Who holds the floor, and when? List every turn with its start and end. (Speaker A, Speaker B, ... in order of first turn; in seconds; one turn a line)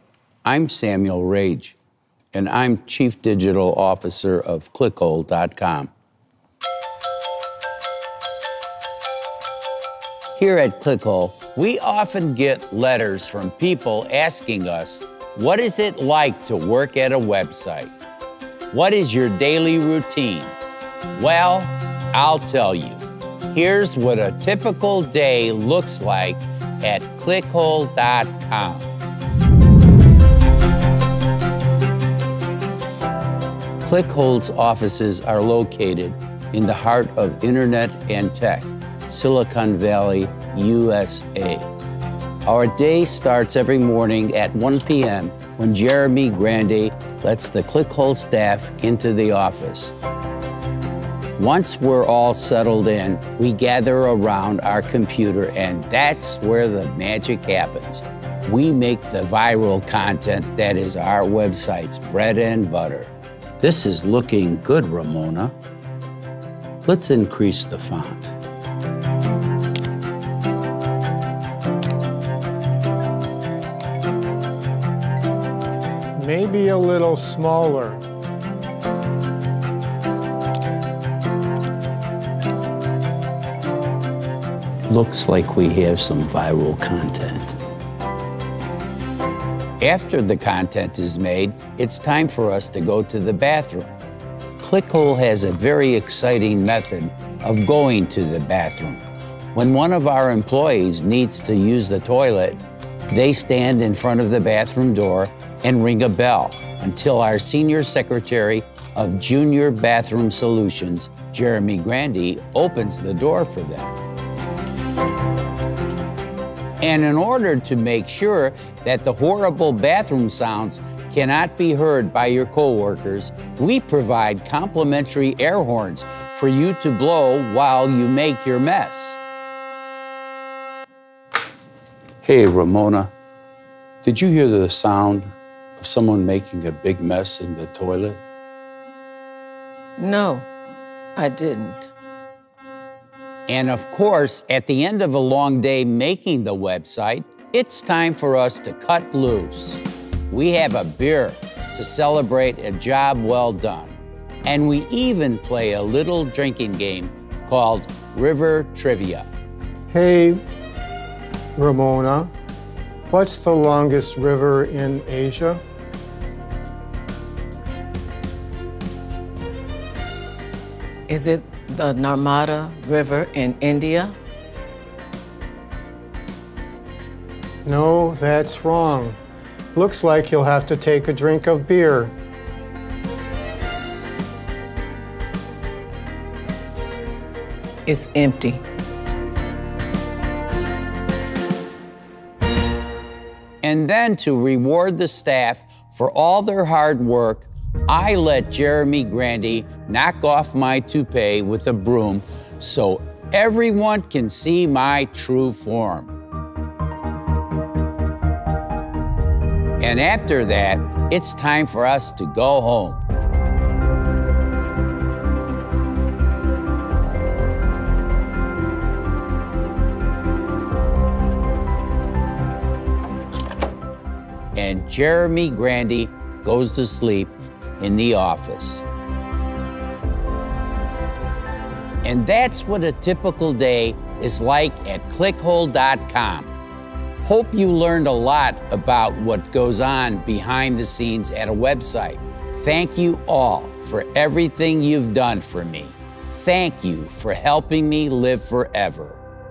Speaker A: 0.4-1.8
Speaker A: 2.3-5.9
Speaker A: 10.3-17.9
Speaker A: 18.7-20.5
Speaker A: 21.1-28.9
Speaker A: 33.8-41.7
Speaker A: 42.5-50.0
Speaker A: 51.4-65.5
Speaker A: 66.8-68.3
Speaker B: 76.2-78.0
Speaker A: 84.9-87.6
Speaker A: 89.8-93.9
Speaker A: 94.6-99.0
Speaker A: 99.5-114.0
Speaker A: 116.8-129.2
Speaker A: 132.2-133.1
Speaker A: 134.0-138.2
Speaker C: 140.0-140.5
Speaker C: 141.2-141.9
Speaker A: 143.5-159.3
Speaker B: 159.9-160.4
Speaker B: 161.6-162.3
Speaker B: 163.1-165.6
Speaker C: 171.1-174.2
Speaker B: 177.7-179.2
Speaker B: 179.8-182.1
Speaker C: 187.9-188.6
Speaker A: 193.6-206.1
Speaker A: 209.8-213.0
Speaker A: 224.6-228.8
Speaker A: 232.0-236.5
Speaker A: 237.2-249.2